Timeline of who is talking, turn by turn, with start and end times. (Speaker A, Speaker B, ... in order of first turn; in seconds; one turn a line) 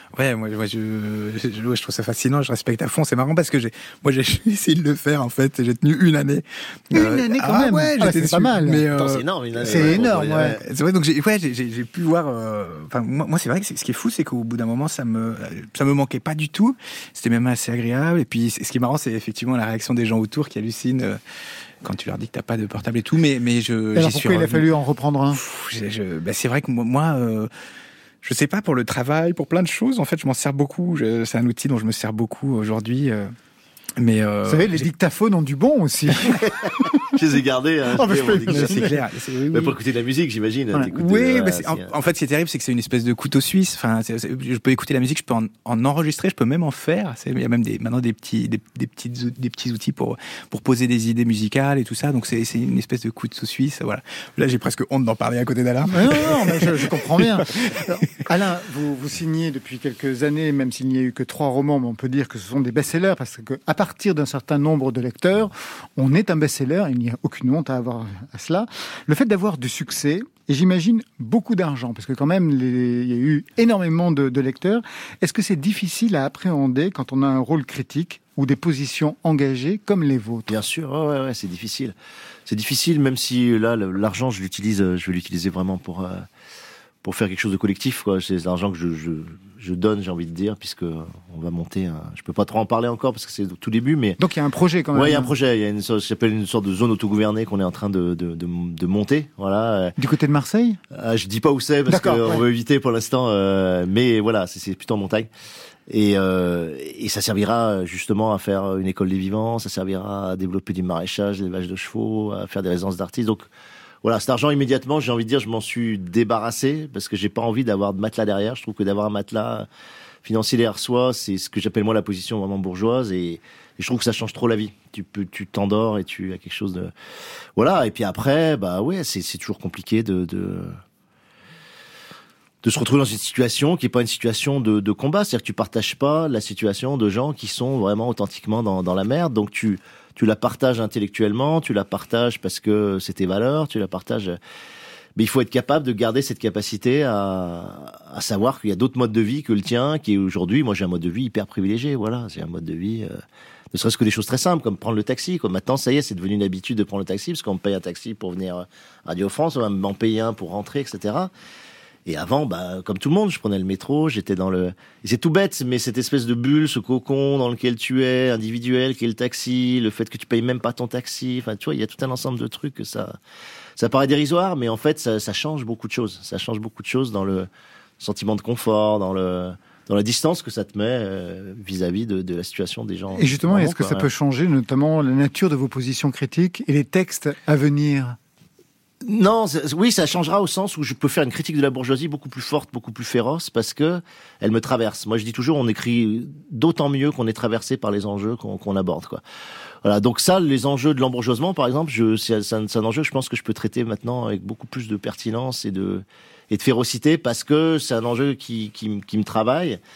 Speaker A: 0.1-10.0
Speaker B: 6.9-8.9
Speaker C: 9.0-10.6
Speaker B: 9.7-10.6
Speaker A: 10.6-21.2
Speaker A: 21.8-24.7
Speaker B: 24.0-25.4
Speaker A: 25.3-27.5
Speaker A: 28.2-33.3
Speaker A: 34.0-34.9
Speaker B: 34.5-36.8
Speaker C: 36.4-38.9
Speaker B: 38.0-38.9
Speaker A: 38.5-39.8
Speaker C: 39.5-41.9
Speaker A: 40.9-57.8
Speaker B: 55.9-80.5
Speaker C: 80.5-86.3
Speaker C: 87.0-94.2
Speaker B: 94.2-95.3
Speaker C: 94.9-100.0
Speaker B: 100.0-100.8
Speaker C: 100.9-105.3
Speaker B: 101.9-102.5
Speaker C: 105.9-113.5
Speaker C: 114.0-119.7
Speaker C: 120.2-126.9
Speaker C: 127.6-130.8
Speaker C: 132.6-144.4
Speaker C: 145.2-153.2
Speaker C: 153.7-161.3
Speaker C: 162.1-173.2
Speaker C: 173.8-177.5
Speaker C: 178.0-184.1
Speaker B: 183.1-188.2
Speaker C: 189.0-199.2
Speaker C: 199.8-209.8